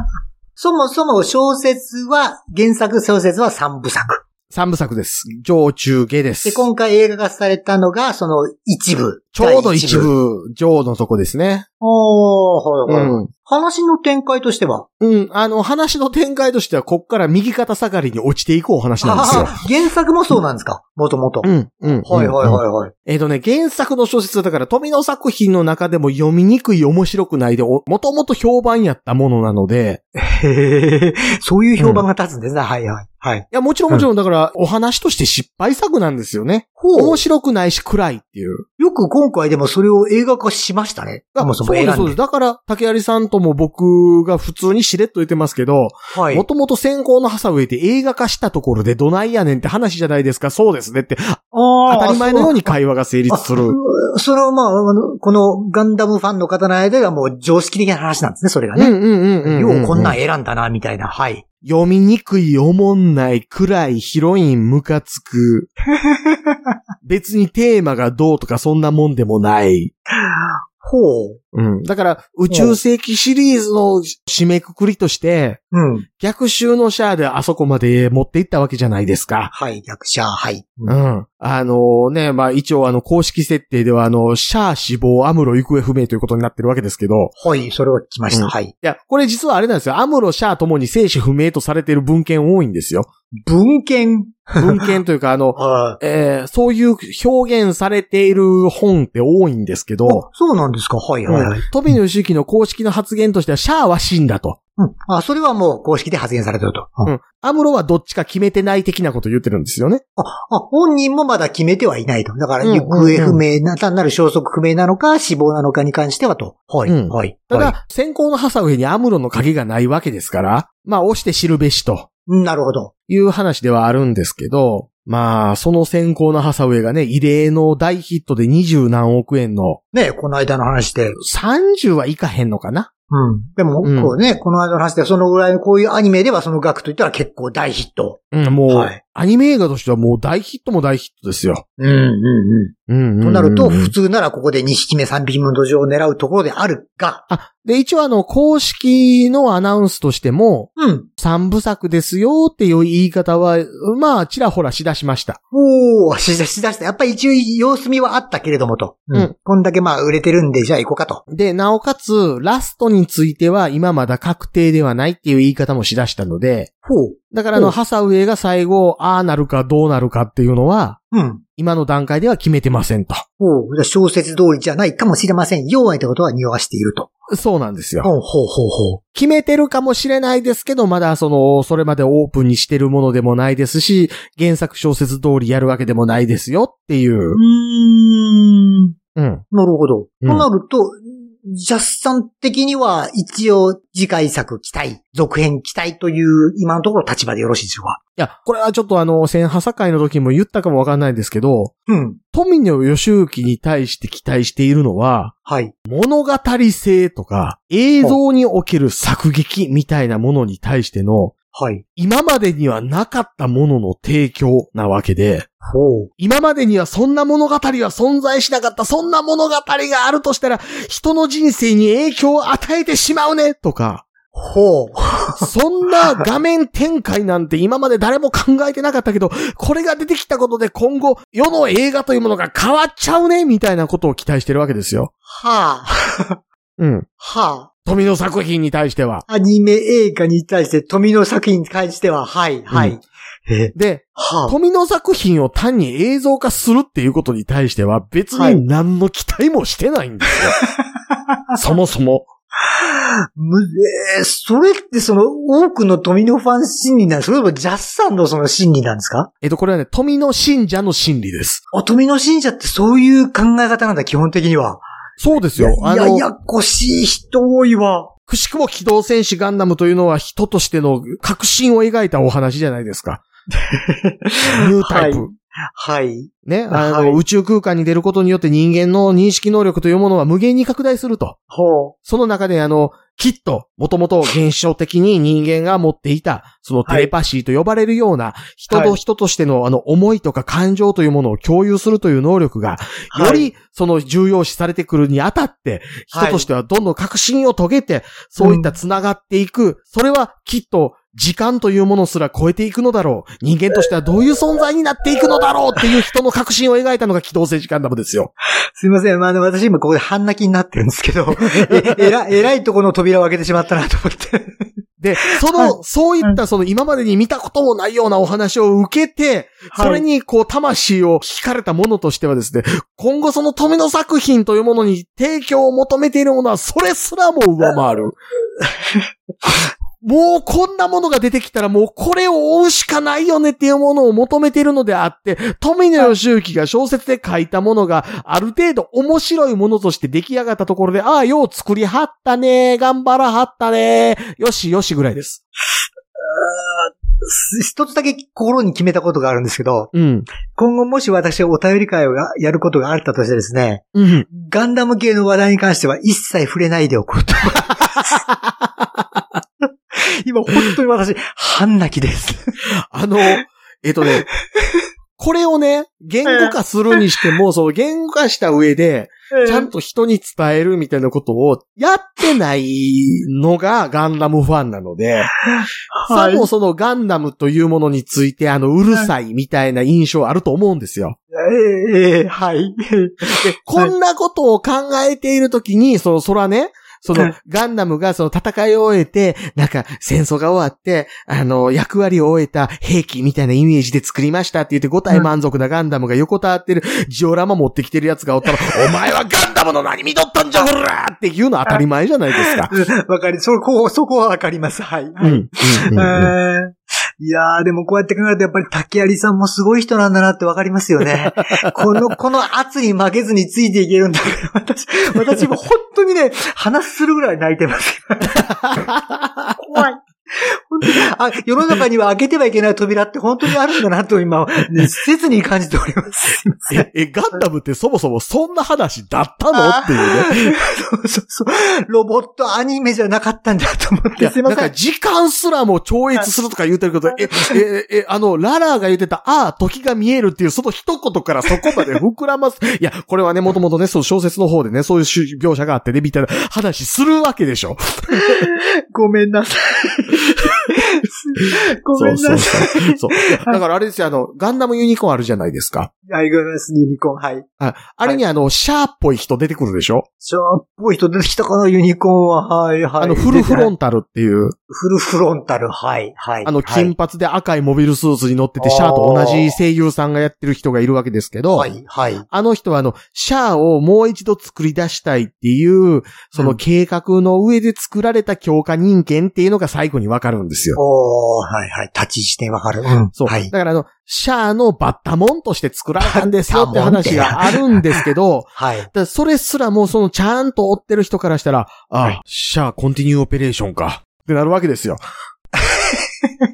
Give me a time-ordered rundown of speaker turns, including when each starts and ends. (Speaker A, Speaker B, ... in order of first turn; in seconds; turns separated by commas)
Speaker A: 0.6-4.2, Speaker B: 4.5-6.7, Speaker A: 6.4-10.1, Speaker B: 9.3-11.6, Speaker A: 11.8-14.9, Speaker B: 12.9-13.3, Speaker B: 15.0-19.6, Speaker A: 19.0-21.5, Speaker B: 21.4-30.0, Speaker A: 22.0-22.9, Speaker A: 30.1-34.1, Speaker B: 31.8-32.0, Speaker B: 33.5-38.6, Speaker A: 36.8-37.2, Speaker A: 38.8-42.2, Speaker B: 41.4-53.8, Speaker A: 46.1-46.5, Speaker A: 51.5-52.7, Speaker A: 53.3-61.4, Speaker B: 58.7-60.2, Speaker B: 61.6-65.7, Speaker A: 66.1-66.5, Speaker B: 67.0-69.9, Speaker A: 70.2-71.4, Speaker B: 71.5-75.6, Speaker A: 72.5-72.8, Speaker A: 75.7-76.1, Speaker B: 76.2-79.5, Speaker A: 79.5-81.0, Speaker B: 80.9-87.3, Speaker A: 87.4-88.7, Speaker B: 88.3-93.1, Speaker A: 93.5-94.9, Speaker B: 94.6-100.2, Speaker A: 95.5-96.0, Speaker A: 100.0-101.9, Speaker B: 101.3-104.6, Speaker A: 104.8-107.1, Speaker B: 107.0-110.0, Speaker A: 110.2-117.8, Speaker B: 112.6-113.4, Speaker B: 116.8-122.1, Speaker A: 122.3-122.9, Speaker B: 123.1-129.8, Speaker A: 129.9-131.2, Speaker B: 131.2-132.9, Speaker A: 133.1-139.0, Speaker B: 133.8-134.1, Speaker B: 138.3-141.6, Speaker A: 141.8-147.2, Speaker B: 142.9-143.9, Speaker B: 147.3-155.4, Speaker A: 150.8-151.1, Speaker A: 155.5-161.2, Speaker B: 161.3-166.7, Speaker A: 166.8-167.8, Speaker B: 167.3-171.0, Speaker A: 171.1-171.4, Speaker B: 171.6-173.2, Speaker A: 173.4-177.1, Speaker B: 177.3-178.1, Speaker A: 178.0-179.0, Speaker B: 179.1-187.4, Speaker A: 187.3-188.9, Speaker B: 189.2-189.4, Speaker A: 189.5-198.0, Speaker B: 198.2-201.7, Speaker A: 201.9-202.2, Speaker B: 202.3-205.3, Speaker A: 205.4-205.7, Speaker B: 205.8-211.3, Speaker A: 211.5-211.8, Speaker B: 212.0-215.5, Speaker A: 215.6-216.1, Speaker B: 216.2-224.0, Speaker A: 224.3-225.5, Speaker B: 225.4-235.1, Speaker A: 235.3-236.4, Speaker B: 236.8-237.1, Speaker A: 237.2-237.7, Speaker B: 237.8-239.2, Speaker A: 239.3-244.6, Speaker B: 242.7-243.0, Speaker B: 243.7-250.6, Speaker A: 248.3-248.6, Speaker B: 251.6-252.3, Speaker A: 252.7-259.3, Speaker B: 259.4-261.6, Speaker A: 261.7-264.8, Speaker B: 265.2-266.2, Speaker A: 265.5-268.1, Speaker B: 268.3-273.2, Speaker A: 273.6-277.2, Speaker B: 274.5-275.3, Speaker B: 276.4-281.4, Speaker A: 281.5-281.9, Speaker B: 282.1-308.3, Speaker A: 288.7-289.0, Speaker A: 293.1-293.5, Speaker A: 296.1-296.4, Speaker A: 298.4-298.7, Speaker A: 308.8-314.6, Speaker B: 311.6-311.9, Speaker B: 315.0-328.2, Speaker A: 315.3-316.4, Speaker A: 319.7-320.0, Speaker B: 329.4-345.4, Speaker A: 346.2-349.9, Speaker B: 349.9-350.3, Speaker A: 350.5-358.2, Speaker B: 353.9-354.2, Speaker B: 358.4-359.2, Speaker A: 359.9-362.4, Speaker B: 362.9-364.2, Speaker B: 365.2-375.3, Speaker A: 366.2-367.0, Speaker A: 369.3-369.7, Speaker A: 375.4-376.5, Speaker B: 376.1-381.1, Speaker A: 381.3-383.9, Speaker B: 383.3-402.7, Speaker A: 402.4-418.6, Speaker B: 405.2-406.3, Speaker B: 418.7-419.5, Speaker A: 419.6-426.9, Speaker B: 426.7-430.5, Speaker A: 429.6-434.7, Speaker B: 434.2-448.4, Speaker A: 448.1-453.6, Speaker B: 451.9-455.9, Speaker A: 456.1-457.5, Speaker B: 457.6-460.1, Speaker A: 460.2-463.7, Speaker B: 463.0-464.6, Speaker A: 464.7-466.9, Speaker B: 466.4-471.7, Speaker A: 468.6-469.5, Speaker A: 471.5-472.2, Speaker B: 472.3-480.8, Speaker A: 476.3-476.6, Speaker A: 480.8-483.5, Speaker B: 483.1-495.0, Speaker A: 486.0-488.0, Speaker A: 488.6-488.9, Speaker A: 495.6-496.3